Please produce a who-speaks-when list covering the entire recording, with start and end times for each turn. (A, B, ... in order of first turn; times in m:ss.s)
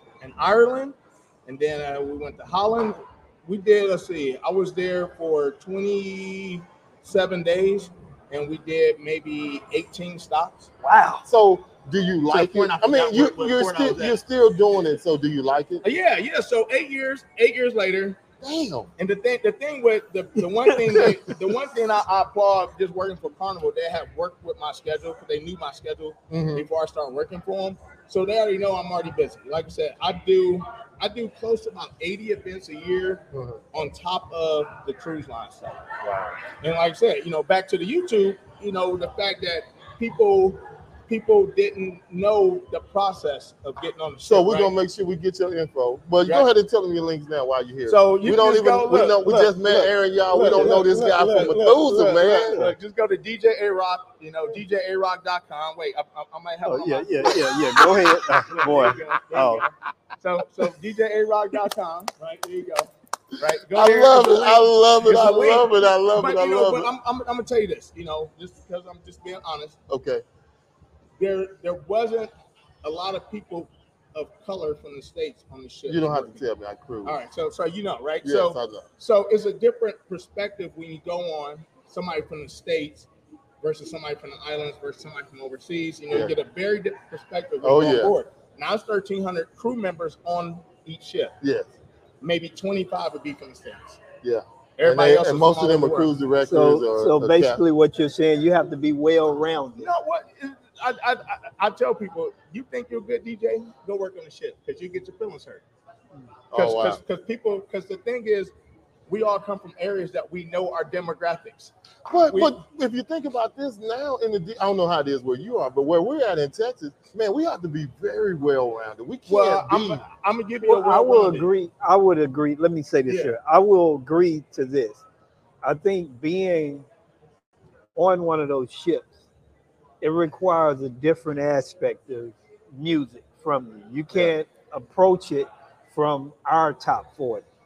0:00.2-0:10.7 A
0:10.8-0:11.2 B
0:11.2-0:15.8 C
0:12.3-0:14.2 A
0:15.8-0:18.2 A
0:18.4-0:18.9 C
0:19.0-0:35.8 A
0:26.3-0:26.7 C
0:33.3-0:33.6 C
0:36.0-0:36.4 C
0:36.5-0:44.7 A
0:44.2-0:52.6 C
0:47.9-1:09.8 A
0:50.4-0:50.8 B
0:56.6-0:59.6 B
1:03.7-1:06.9 C
1:09.9-1:10.2 C
1:11.2-1:12.3 A
1:12.8-1:16.4 A
1:15.9-1:17.2 C
1:17.0-1:23.1 A
1:18.2-1:18.9 C
1:23.6-1:31.3 A
1:26.1-1:26.3 C
1:27.6-1:28.1 C
1:31.4-1:31.7 C
1:32.2-1:34.0 A
1:34.2-1:37.6 C
1:34.8-1:36.1 A
1:36.4-1:39.9 B
1:39.8-1:45.6 A
1:46.5-1:47.0 C
1:46.5-1:48.5 A
1:49.1-1:52.5 A
1:52.0-2:00.0 C
1:59.3-2:01.5 A
2:00.6-2:05.0 B
2:03.1-2:03.4 A
2:05.6-2:06.9 B
2:08.0-2:09.2 B
2:10.0-2:17.4 B